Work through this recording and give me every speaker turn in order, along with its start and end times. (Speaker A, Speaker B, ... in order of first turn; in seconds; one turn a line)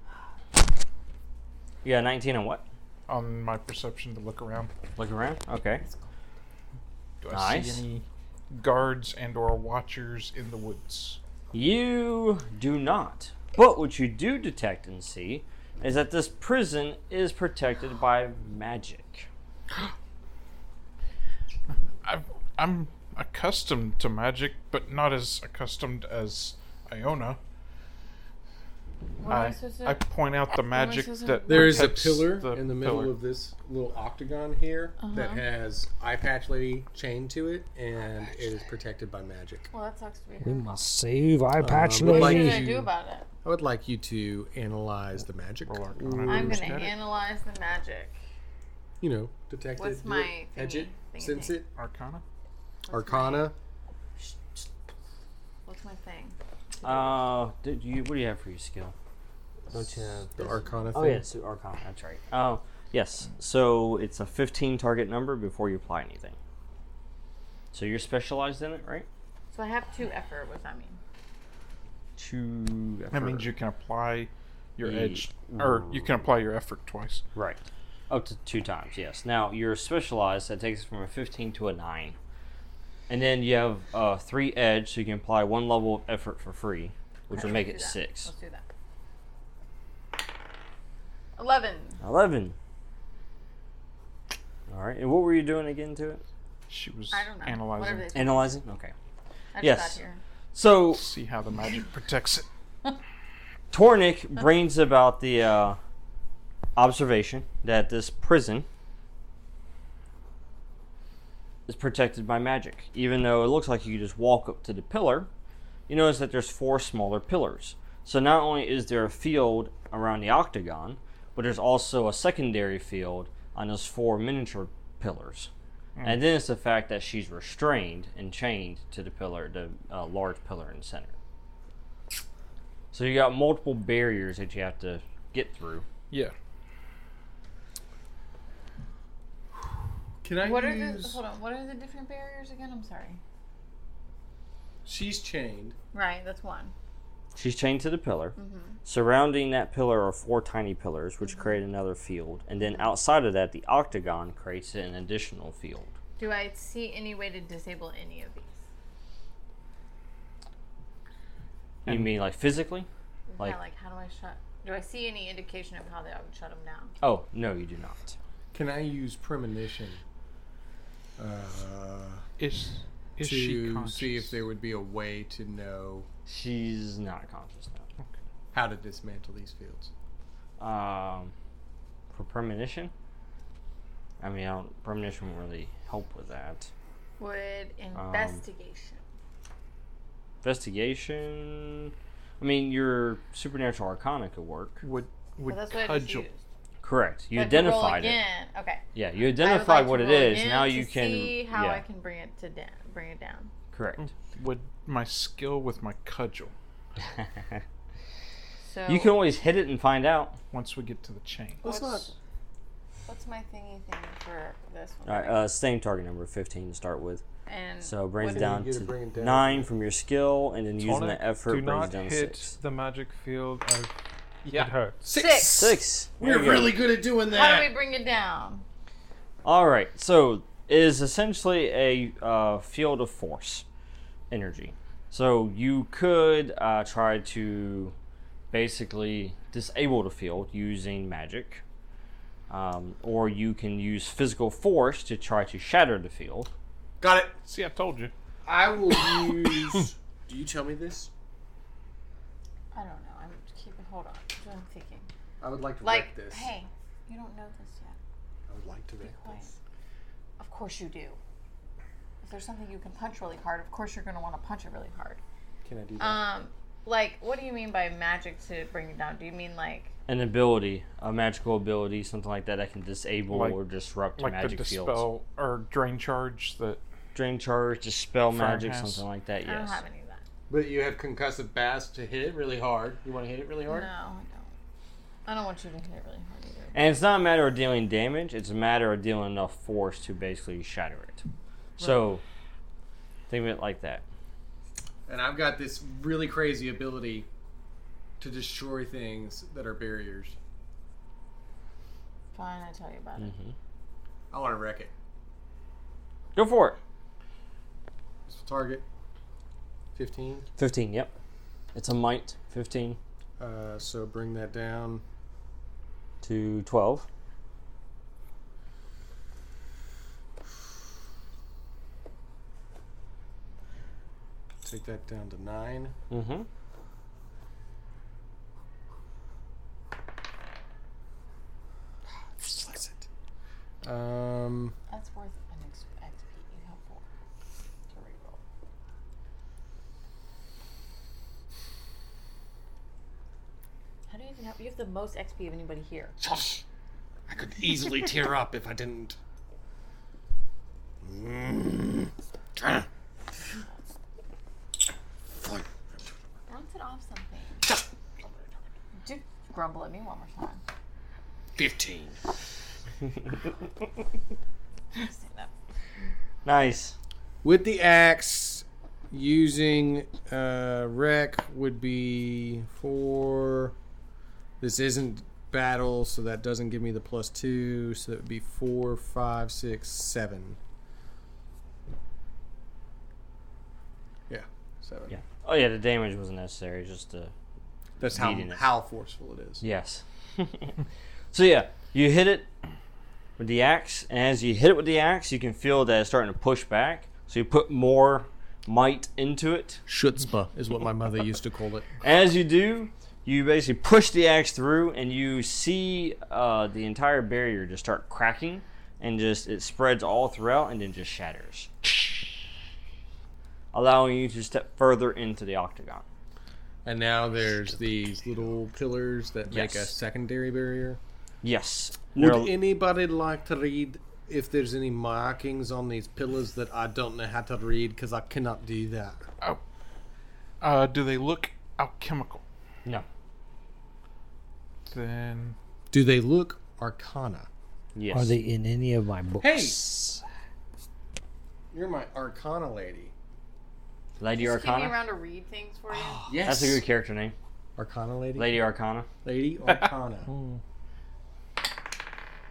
Speaker A: 1.8-2.6
Speaker B: 3.1-4.7
Speaker A: 5.0-5.8
Speaker B: 7.2-11.2
Speaker A: 7.3-7.8
Speaker A: 11.5-19.3
Speaker B: 22.0-27.4
Speaker C: 29.2-31.9
Speaker B: 29.2-33.1
Speaker D: 31.5-39.7
Speaker C: 35.0-35.4
Speaker C: 39.7-40.7
Speaker E: 40.4-42.6
Speaker D: 41.6-42.9
Speaker C: 42.0-43.3
Speaker D: 43.4-46.8
Speaker B: 45.7-47.0
Speaker C: 46.3-48.2
Speaker D: 49.0-51.7
Speaker C: 49.8-51.6
Speaker B: 51.8-52.2
Speaker C: 52.8-53.5
Speaker D: 52.9-53.5
Speaker C: 55.6-56.4
Speaker A: 56.8-58.9
Speaker D: 59.7-61.2
Speaker A: 59.7-66.3
Speaker C: 60.5-60.9
Speaker A: 67.7-69.1
Speaker C: 69.5-71.0
Speaker A: 72.2-73.5
Speaker B: 73.1-77.2
Speaker A: 74.8-76.2
Speaker A: 77.3-82.2
Speaker A: 83.1-88.3
Speaker C: 87.3-88.6
Speaker C: 91.4-92.0
Speaker A: 92.0-92.5
Speaker A: 94.7-96.2
Speaker B: 96.7-98.1
Speaker C: 97.1-98.6
Speaker A: 98.1-98.9
Speaker C: 99.5-100.2
Speaker A: 99.6-100.0
Speaker A: 100.5-101.1
Speaker B: 100.9-102.5
Speaker A: 103.7-105.8
Speaker A: 106.8-108.7
Speaker A: 111.7-115.3
Speaker A: 115.9-125.5
Speaker B: 126.0-126.2
Speaker A: 126.0-131.2
Speaker A: 132.9-135.8
Speaker D: 140.2-141.2
Speaker C: 140.4-143.2
Speaker D: 144.8-145.8
Speaker C: 145.9-146.7
Speaker A: 147.3-155.9
Speaker C: 148.3-148.8
Speaker C: 152.6-152.9
Speaker C: 156.2-158.6
Speaker B: 161.8-162.1
Speaker A: 161.8-162.9
Speaker C: 163.3-166.9
Speaker A: 167.0-168.2
Speaker D: 168.5-170.0
Speaker D: 171.2-172.2
Speaker B: 172.4-174.3
Speaker D: 173.2-176.1
Speaker A: 176.2-177.8
Speaker D: 178.5-179.9
Speaker A: 180.6-181.3
Speaker A: 182.1-182.9
Speaker A: 184.2-186.7
Speaker C: 187.2-189.0
Speaker A: 187.9-188.4
Speaker A: 190.4-194.8
Speaker B: 194.8-196.3
Speaker C: 195.4-196.4
Speaker A: 196.8-198.2
Speaker C: 197.3-198.8
Speaker A: 198.9-201.8
Speaker C: 199.4-203.5
Speaker A: 203.7-204.1
Speaker B: 204.3-206.5
Speaker A: 207.0-207.6
Speaker C: 208.6-209.1
Speaker A: 208.9-210.4
Speaker B: 210.5-211.7
Speaker D: 211.6-212.1
Speaker C: 211.6-212.1
Speaker C: 213.1-215.4
Speaker A: 215.1-217.2
Speaker C: 217.5-218.5
Speaker A: 217.8-222.5
Speaker D: 218.2-219.7
Speaker F: 220.8-225.0
Speaker B: 224.5-224.7
Speaker D: 225.0-227.7
Speaker C: 225.1-225.7
Speaker A: 225.4-226.7
Speaker C: 227.3-228.6
Speaker A: 229.4-233.6
Speaker A: 234.3-237.9
Speaker A: 238.5-241.6
Speaker A: 242.5-246.5
Speaker D: 247.0-247.4
Speaker B: 247.4-248.1
Speaker D: 248.4-251.1
Speaker C: 252.7-255.1
Speaker D: 255.4-256.5
Speaker C: 255.8-258.0
Speaker D: 258.5-259.5
Speaker C: 259.0-259.5
Speaker C: 260.4-261.2
Speaker C: 262.2-265.2
Speaker D: 265.6-266.2
Speaker C: 266.0-269.9
Speaker A: 270.1-275.1
Speaker B: 273.3-273.6
Speaker B: 274.2-276.8
Speaker A: 277.1-279.8
Speaker B: 278.3-279.1
Speaker C: 279.4-280.2
Speaker D: 280.5-283.9
Speaker C: 283.7-284.5
Speaker C: 285.2-286.8
Speaker A: 286.7-291.2
Speaker A: 291.8-292.2
Speaker A: 293.3-294.0
Speaker D: 295.1-297.3
Speaker D: 298.2-300.4
Speaker C: 302.3-303.3
Speaker A: 303.2-303.5
Speaker D: 304.3-304.9
Speaker A: 306.3-306.8
Speaker D: 308.3-308.9
Speaker D: 309.9-310.5
Speaker A: 310.6-311.1
Speaker A: 311.7-313.0
Speaker D: 313.4-315.0
Speaker A: 316.2-317.1
Speaker D: 324.6-325.9
Speaker A: 326.1-326.5
Speaker D: 332.4-333.1
Speaker D: 333.8-334.8
Speaker C: 334.9-337.0
Speaker C: 337.9-338.4
Speaker C: 344.1-346.2
Speaker D: 346.2-346.6
Speaker D: 347.3-349.2
Speaker D: 351.0-352.9
Speaker D: 355.3-355.7
Speaker C: 356.5-357.7
Speaker C: 359.0-360.6
Speaker D: 361.6-362.2
Speaker C: 364.9-365.5
Speaker A: 366.4-366.9
Speaker D: 367.4-373.8
Speaker D: 374.6-380.6
Speaker D: 384.3-385.2
Speaker A: 385.1-387.3
Speaker D: 388.0-389.6
Speaker A: 388.0-388.6
Speaker A: 389.6-390.8
Speaker A: 391.3-392.5
Speaker A: 393.4-399.8
Speaker D: 399.9-401.9
Speaker A: 402.0-411.7
Speaker A: 413.7-416.1
Speaker D: 416.8-421.0
Speaker A: 419.5-419.9
Speaker A: 421.4-422.6
Speaker D: 422.1-429.2
Speaker B: 430.6-432.4
Speaker B: 434.9-435.6
Speaker D: 435.9-437.5
Speaker A: 437.9-438.4
Speaker E: 438.1-440.2
Speaker D: 439.4-439.9
Speaker D: 441.7-443.1
Speaker A: 444.2-445.0
Speaker C: 444.3-446.3
Speaker A: 445.9-447.3
Speaker D: 446.2-446.8
Speaker D: 447.8-448.6
Speaker A: 448.4-449.1
Speaker D: 449.2-450.3
Speaker F: 450.3-450.6